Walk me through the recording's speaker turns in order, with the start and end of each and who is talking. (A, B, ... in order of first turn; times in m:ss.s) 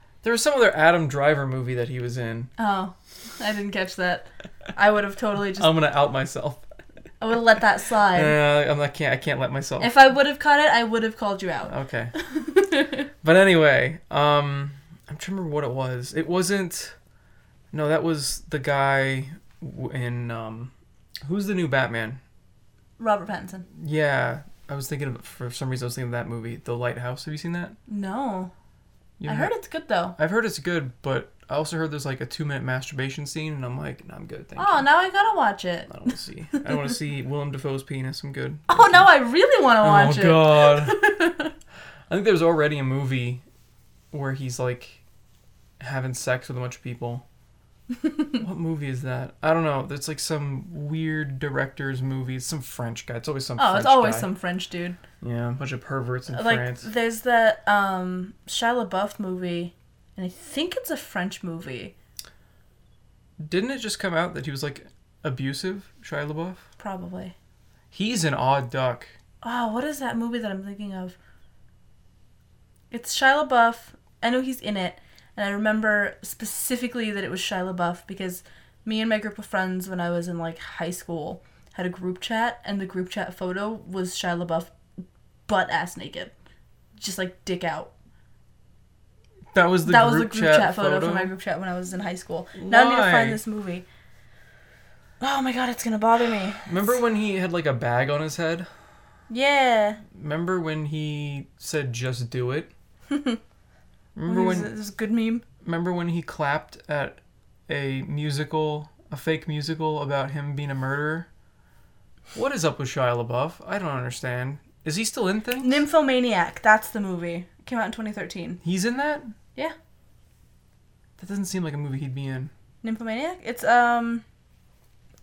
0:00.2-0:02.5 A
0:02.6-0:05.7 B
0:05.5-0:06.6 A
0:07.2-0:08.4 B
0:08.1-0:10.0 A
0:09.8-0:13.1 B
0:11.7-0:12.1 A
0:13.2-0:17.0 A
0:17.7-0:20.7 A
0:21.2-0:22.2 A
0:23.0-0:23.7 B
0:23.7-0:27.8 A
0:27.9-0:28.5 B
0:29.2-0:29.5 A
0:29.3-0:30.2 B
0:30.2-0:34.9 A
0:34.6-0:36.0 B
0:35.9-0:39.1 A
0:36.5-0:36.9 B
0:38.7-0:41.5 B
0:39.8-0:41.0 A
0:42.1-0:43.4 A
0:44.1-0:45.0 A
0:45.8-0:47.2 A
0:47.9-0:48.4 B
0:48.4-0:54.3 A
0:53.6-0:55.0 B
0:55.2-0:56.9 A
0:56.3-1:02.0 B
1:03.4-1:06.7 A
1:06.8-1:07.4 B
1:07.9-1:09.1 A
1:09.4-1:11.2 B
1:12.9-1:24.7 B
1:25.5-1:26.3 B
1:27.0-1:27.9 B
1:29.5-1:31.3 A
1:29.8-1:33.9 B
1:32.6-1:33.4 A
1:35.2-1:37.0 B
1:36.6-1:38.7 A
1:39.3-1:40.0 B
1:40.1-1:42.7 A
1:43.1-1:43.4 B
1:44.2-1:44.7 A
1:44.3-1:45.4 B
1:45.6-1:51.3 A
1:52.3-1:55.8 A
1:55.6-1:58.6 B
1:58.6-1:59.4 A
2:01.2-2:02.5 A
2:02.8-2:04.2 B